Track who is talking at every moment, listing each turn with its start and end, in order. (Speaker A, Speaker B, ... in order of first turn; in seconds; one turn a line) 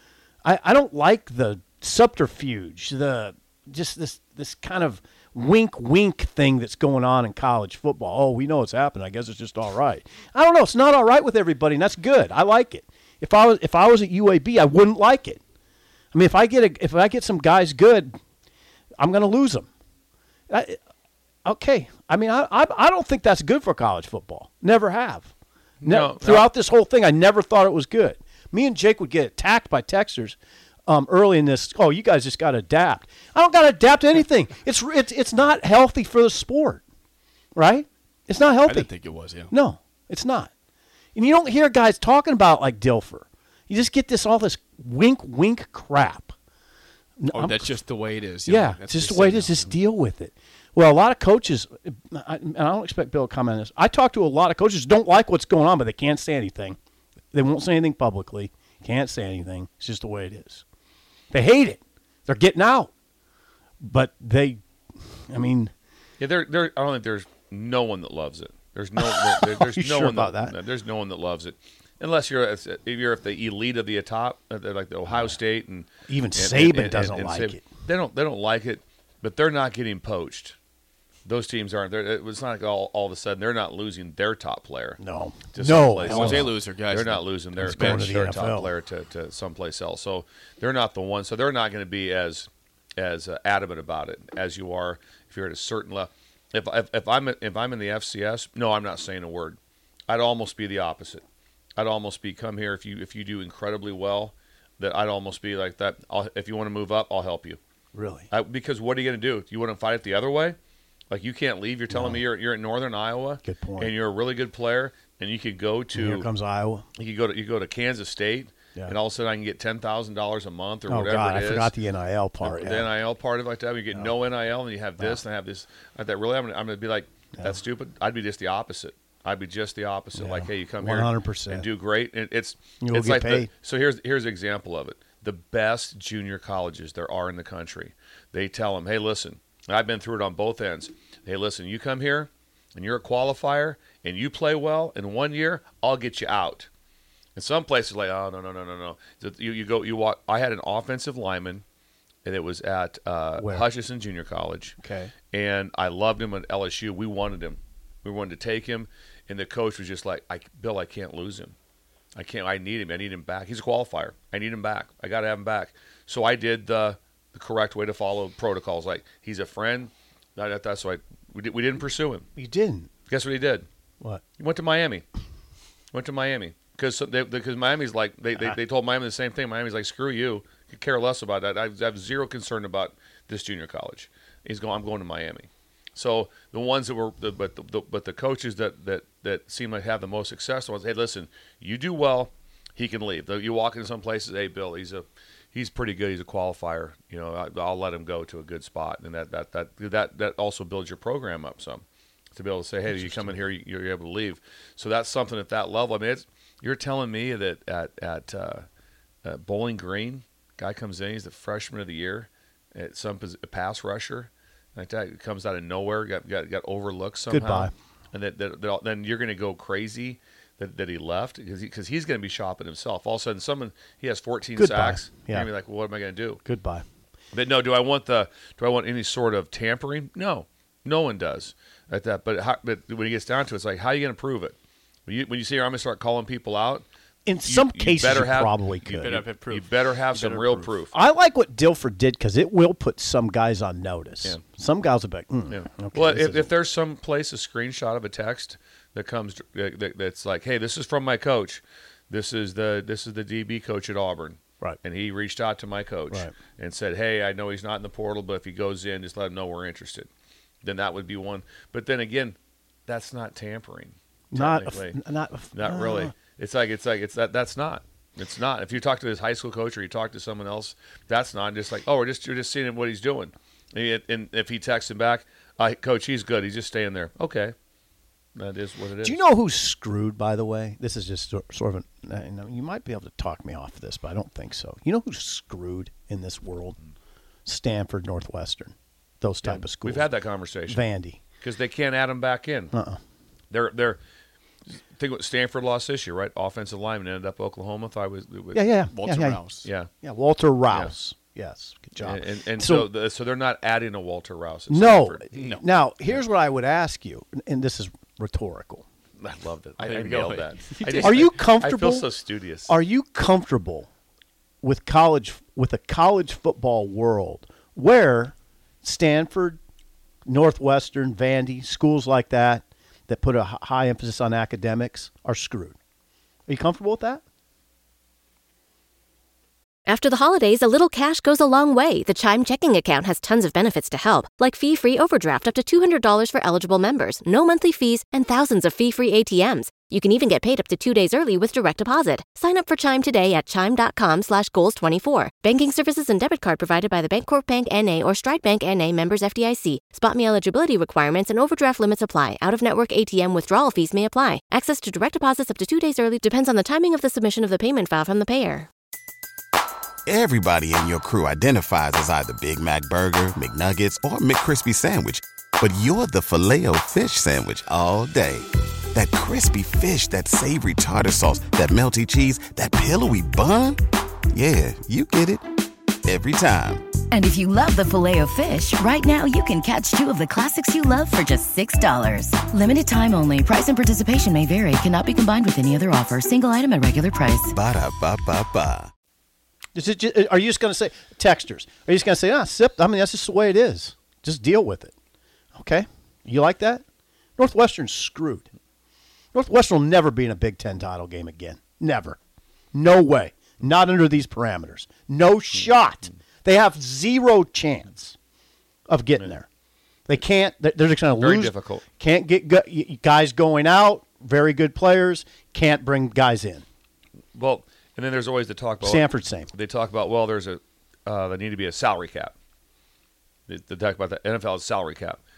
Speaker A: 0.4-15.4
Speaker A: 16.1-18.1
Speaker A: 19.0-19.7
Speaker A: 20.5-20.8
Speaker A: 21.4-25.3
Speaker B: 25.8-26.5
Speaker A: 25.8-36.8
Speaker A: 37.5-38.9
Speaker C: 38.6-39.5
Speaker A: 39.5-40.5
Speaker A: 41.1-46.3
Speaker A: 47.2-47.8
Speaker C: 47.3-49.8
Speaker A: 48.4-56.8
Speaker A: 57.3-60.6
Speaker A: 61.3-62.9
Speaker A: 63.8-64.6
Speaker A: 65.3-65.7
Speaker B: 66.2-80.5
Speaker A: 69.0-70.6
Speaker A: 75.1-75.4
Speaker A: 76.1-77.7
Speaker B: 81.2-85.0
Speaker A: 85.0-86.5
Speaker B: 85.5-101.2
Speaker C: 86.0-88.1
Speaker A: 87.6-88.7
Speaker B: 101.8-107.6
Speaker A: 107.9-108.3
Speaker B: 108.3-110.6
Speaker B: 111.1-116.3
Speaker A: 111.9-112.2
Speaker A: 113.4-113.9
Speaker A: 115.9-116.8
Speaker B: 117.0-121.7
Speaker A: 120.9-122.9
Speaker B: 122.4-146.7
Speaker A: 130.1-131.7
Speaker A: 132.8-133.5
Speaker B: 147.3-151.6
Speaker B: 152.2-154.8
Speaker A: 153.4-153.7
Speaker A: 154.8-155.1
Speaker B: 155.3-161.5
Speaker B: 162.1-172.2
Speaker A: 172.3-172.9
Speaker B: 173.1-173.7
Speaker B: 174.4-175.0
Speaker B: 175.9-201.8
Speaker B: 202.3-208.7
Speaker A: 202.9-203.4
Speaker B: 209.2-226.4
Speaker A: 217.3-217.7
Speaker A: 224.6-225.5
Speaker A: 226.4-226.8
Speaker B: 227.3-236.9
Speaker A: 237.2-239.2
Speaker B: 237.4-240.9
Speaker C: 239.0-240.8
Speaker A: 240.9-246.5
Speaker B: 245.5-260.1
Speaker A: 256.1-256.4
Speaker B: 260.6-265.0
Speaker A: 264.3-266.1
Speaker B: 265.5-277.5
Speaker B: 278.4-279.2
Speaker A: 279.0-286.8
Speaker A: 287.4-290.1
Speaker B: 289.4-290.8
Speaker A: 290.6-291.2
Speaker B: 291.4-292.7
Speaker A: 292.7-293.0
Speaker B: 293.5-294.0
Speaker B: 294.9-298.6
Speaker A: 298.5-299.4
Speaker C: 298.9-299.7
Speaker B: 299.6-299.9
Speaker A: 300.0-302.9
Speaker B: 300.7-300.9
Speaker B: 301.9-305.3
Speaker A: 304.7-308.8
Speaker C: 305.3-305.6
Speaker B: 309.2-312.8
Speaker C: 309.8-311.4
Speaker A: 311.0-312.1
Speaker A: 312.6-313.9
Speaker A: 314.6-319.6
Speaker A: 320.3-325.8
Speaker A: 326.5-327.2
Speaker D: 329.9-358.7
Speaker E: 360.1-373.8
Speaker E: 374.3-375.4
Speaker E: 376.0-377.0
Speaker F: 377.1-387.5
Speaker E: 387.5-388.9
Speaker A: 389.7-394.9
Speaker A: 395.5-396.8
Speaker A: 397.4-398.5
Speaker A: 399.3-402.2
Speaker A: 402.7-408.1
Speaker A: 408.9-409.5
Speaker A: 410.1-416.6
Speaker B: 411.2-411.8
Speaker B: 417.3-422.3
Speaker A: 418.8-419.5
Speaker B: 423.5-425.2